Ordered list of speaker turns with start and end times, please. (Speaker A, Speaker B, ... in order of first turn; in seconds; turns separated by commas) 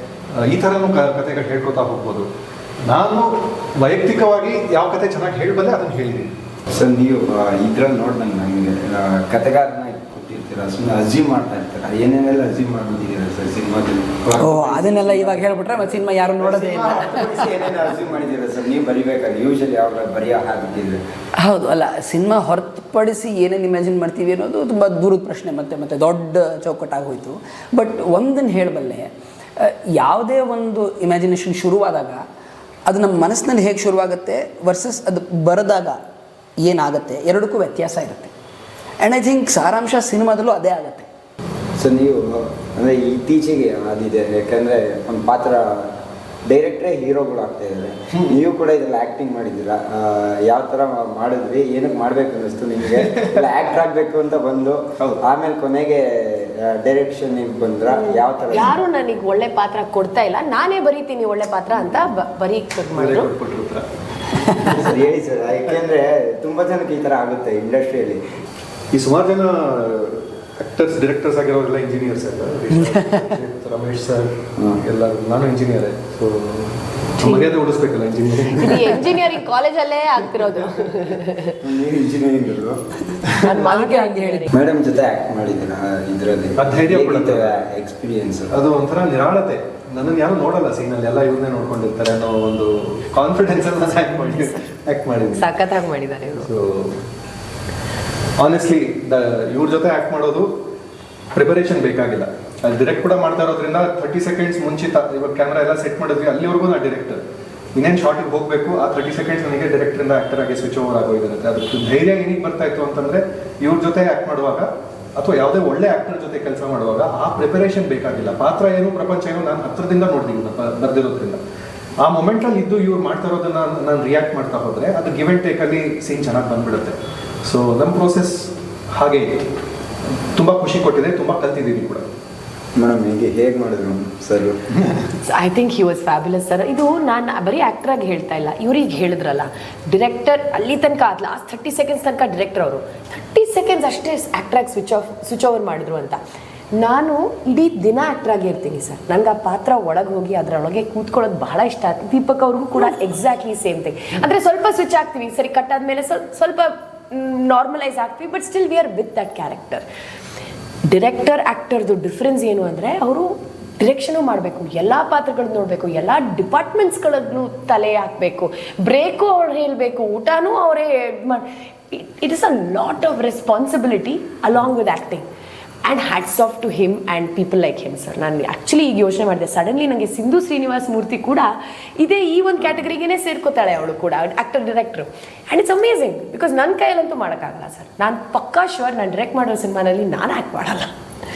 Speaker A: 0.3-2.3, Speaker A: 2.9-6.3, Speaker B: 6.7-21.0, Speaker C: 14.4-17.8, Speaker C: 21.4-32.2, Speaker C: 32.9-36.0, Speaker C: 36.6-38.3, Speaker C: 39.0-41.1, Speaker B: 41.8-45.9, Speaker B: 46.5-58.8, Speaker A: 53.0-53.4, Speaker D: 57.9-63.3, Speaker A: 62.9-63.9, Speaker A: 64.5-65.0, Speaker B: 64.6-68.2, Speaker A: 68.9-79.2, Speaker D: 77.2-77.5, Speaker D: 78.5-81.6, Speaker B: 81.6-82.8, Speaker D: 83.4-84.6, Speaker C: 83.4-84.5, Speaker B: 84.5-88.5, Speaker A: 86.6-87.6, Speaker A: 88.5-95.5, Speaker D: 95.3-96.5, Speaker A: 96.4-97.0, Speaker A: 98.4-100.5, Speaker A: 101.3-107.2, Speaker A: 107.8-121.4, Speaker A: 122.0-129.5, Speaker A: 130.3-132.1, Speaker B: 132.8-134.6, Speaker A: 134.8-135.1, Speaker D: 135.1-146.2, Speaker D: 146.8-159.8, Speaker D: 160.9-175.2, Speaker D: 175.9-190.9